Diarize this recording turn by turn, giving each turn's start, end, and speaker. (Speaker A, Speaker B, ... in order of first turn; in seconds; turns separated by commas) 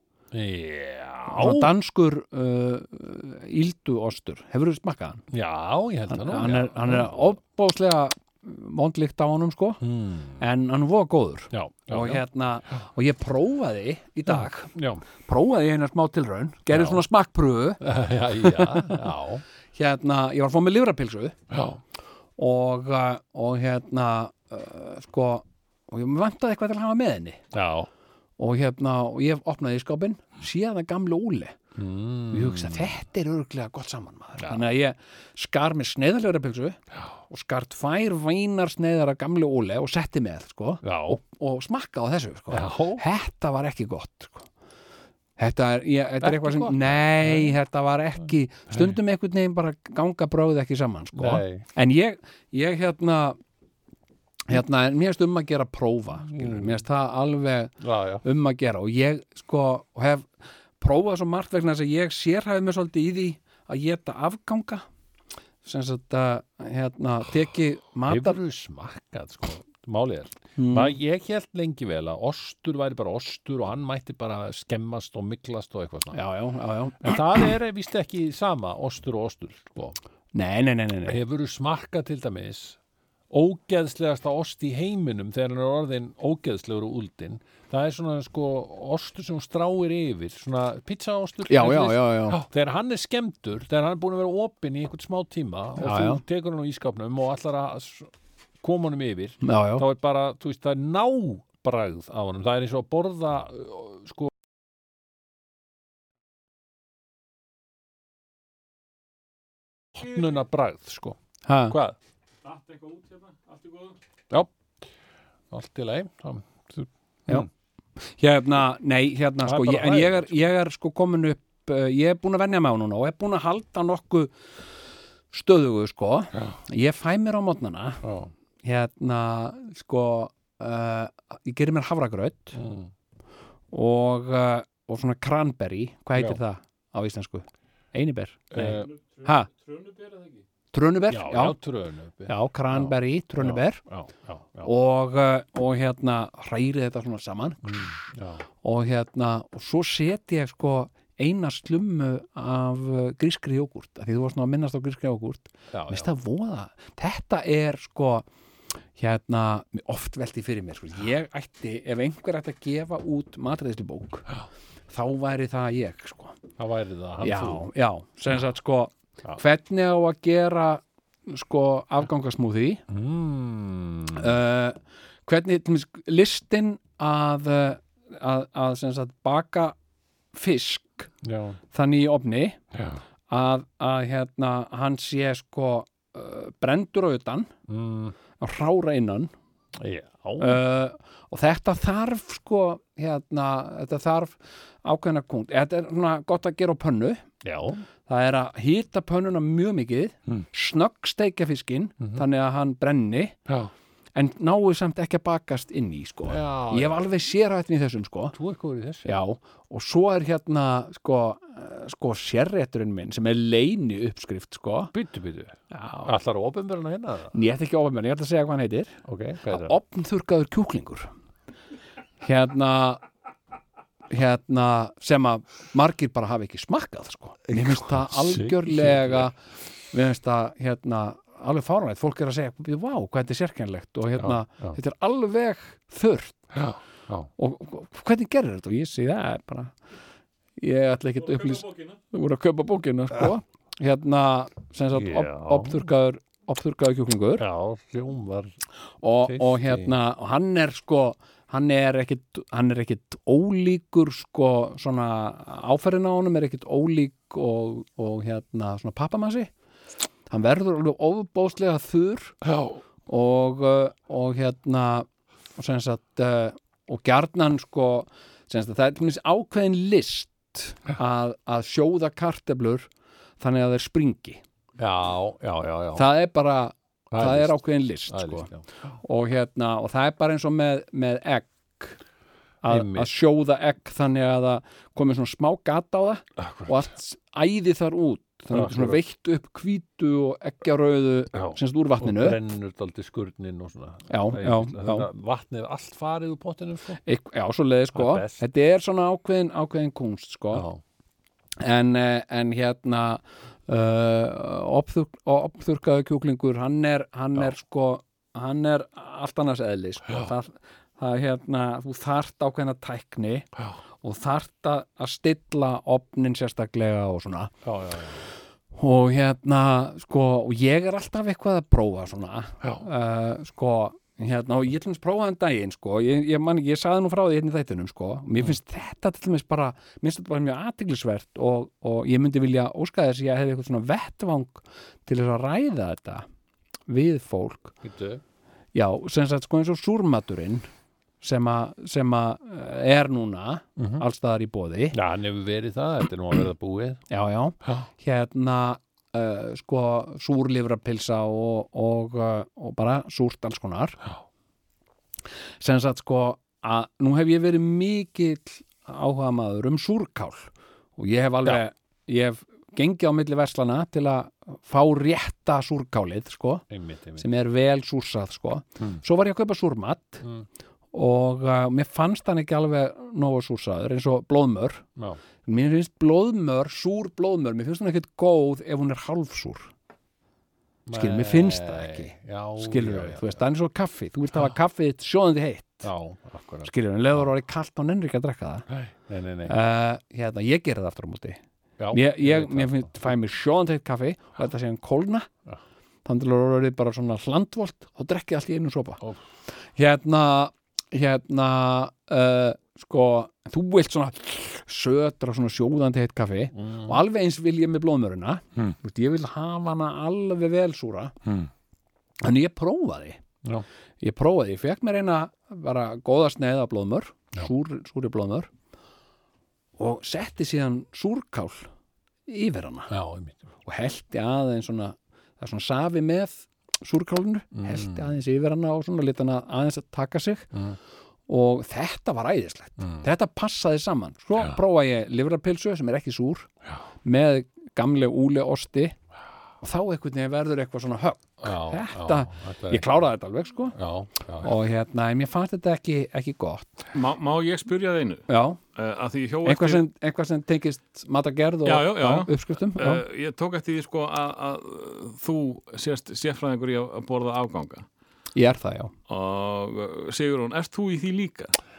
Speaker A: 0.3-1.7, Speaker B: 1.3-5.2, Speaker A: 5.3-7.2, Speaker B: 6.1-9.8, Speaker A: 9.8-10.4, Speaker B: 10.4-14.7, Speaker A: 11.5-12.2, Speaker A: 14.3-15.0, Speaker B: 15.3-17.8, Speaker A: 16.7-17.0, Speaker A: 17.8-19.4, Speaker B: 18.4-19.1, Speaker B: 19.8-21.4, Speaker A: 21.5-21.8, Speaker B: 22.4-27.4, Speaker A: 27.5-27.9, Speaker B: 28.4-31.6, Speaker A: 31.8-32.9, Speaker B: 32.3-36.8, Speaker B: 37.3-44.5, Speaker A: 40.8-41.2, Speaker A: 42.5-43.0, Speaker B: 45.4-53.4, Speaker A: 46.2-47.5, Speaker A: 51.1-51.7, Speaker B: 54.5-60.3, Speaker A: 56.3-56.8, Speaker A: 57.8-58.2, Speaker B: 60.8-64.8, Speaker B: 65.6-68.4, Speaker A: 68.1-76.2, Speaker B: 70.6-71.0, Speaker B: 76.1-77.2, Speaker A: 77.0-80.0, Speaker B: 80.3-81.2, Speaker A: 81.1-82.8, Speaker A: 83.3-98.1, Speaker B: 91.5-92.4, Speaker B: 95.8-96.2, Speaker A: 98.6-104.3, Speaker B: 99.4-99.8, Speaker A: 109.9-111.2, Speaker B: 111.5-111.8, Speaker A: 111.7-112.0, Speaker C: 112.4-114.0, Speaker A: 115.5-117.5, Speaker B: 118.0-124.3, Speaker A: 119.4-120.4, Speaker B: 125.3-128.0, Speaker A: 128.0-128.3, Speaker B: 128.6-132.6, Speaker A: 132.5-132.9, Speaker B: 133.7-139.5, Speaker A: 136.2-136.4, Speaker A: 138.5-138.9, Speaker C: 138.7-140.4, Speaker B: 140.7-141.6, Speaker A: 141.1-144.7, Speaker B: 142.3-143.8, Speaker B: 144.6-148.1, Speaker A: 147.7-148.5, Speaker B: 148.6-158.3, Speaker A: 155.7-156.1, Speaker B: 159.0-164.3, Speaker B: 164.9-166.4, Speaker A: 166.6-167.7, Speaker B: 167.2-172.8, Speaker A: 172.9-174.4, Speaker B: 174.2-179.8, Speaker B: 180.3-181.1, Speaker A: 181.2-181.6, Speaker B: 181.7-182.6, Speaker A: 182.7-183.0, Speaker B: 183.3-187.5, Speaker A: 187.7-188.2, Speaker B: 188.4-189.3, Speaker A: 189.8-190.6, Speaker B: 190.4-197.2, Speaker A: 197.4-197.9, Speaker B: 198.1-203.4, Speaker A: 203.5-203.7, Speaker B: 204.2-208.3, Speaker A: 206.3-207.1, Speaker A: 208.3-209.1, Speaker B: 209.1-214.9, Speaker A: 214.9-217.4, Speaker B: 215.7-216.1, Speaker B: 217.3-221.1, Speaker A: 219.1-219.8, Speaker B: 222.2-223.0, Speaker B: 224.1-229.4, Speaker A: 227.5-229.3, Speaker B: 229.9-236.5, Speaker A: 234.2-234.8, Speaker A: 236.5-237.3, Speaker B: 237.4-239.8, Speaker B: 240.6-247.4, Speaker C: 241.3-242.0, Speaker A: 244.9-245.9, Speaker A: 247.4-248.6, Speaker B: 249.0-259.5, Speaker A: 249.2-249.9, Speaker B: 260.3-262.4, Speaker B: 263.1-272.9, Speaker B: 273.4-274.4, Speaker A: 274.8-276.1, Speaker B: 275.9-278.5, Speaker A: 277.1-278.7, Speaker B: 279.0-282.0, Speaker B: 282.6-292.4, Speaker A: 282.6-283.1, Speaker A: 286.4-286.8, Speaker A: 288.5-289.0, Speaker A: 291.3-297.0, Speaker B: 294.1-295.1, Speaker B: 297.1-300.7, Speaker A: 297.9-298.4, Speaker A: 300.5-300.8, Speaker B: 301.6-313.5, Speaker B: 314.0-317.5, Speaker A: 317.6-318.3, Speaker B: 318.8-336.3, Speaker B: 336.9-337.8, Speaker A: 337.8-338.2, Speaker B: 338.7-340.7, Speaker B: 341.2-345.0, Speaker A: 343.8-344.0, Speaker A: 344.9-347.0, Speaker B: 347.1-354.0, Speaker B: 355.6-366.6, Speaker A: 366.7-367.3, Speaker B: 367.2-370.2, Speaker A: 370.2-370.5, Speaker B: 370.9-374.9, Speaker B: 375.4-379.7, Speaker A: 380.9-383.4, Speaker B: 380.9-385.9, Speaker A: 385.8-387.3, Speaker B: 386.6-388.7, Speaker A: 388.7-389.6, Speaker B: 389.5-391.4, Speaker A: 391.8-392.9, Speaker B: 391.9-395.3, Speaker B: 396.1-399.0, Speaker B: 399.8-411.1, Speaker A: 406.5-407.0, Speaker A: 411.2-411.5, Speaker B: 412.2-413.2, Speaker B: 414.0-418.5, Speaker B: 419.8-421.7, Speaker B: 422.3-422.9, Speaker A: 422.9-423.4, Speaker B: 423.6-430.5, Speaker A: 427.5-428.1, Speaker B: 431.3-436.5, Speaker A: 432.8-433.1, Speaker B: 437.0-439.0, Speaker B: 439.6-443.8, Speaker A: 441.4-442.9, Speaker A: 443.7-444.6, Speaker B: 444.4-446.8, Speaker C: 446.9-449.9, Speaker B: 448.3-448.6, Speaker B: 449.4-453.0, Speaker C: 451.6-457.9, Speaker B: 458.4-458.9, Speaker C: 459.1-461.6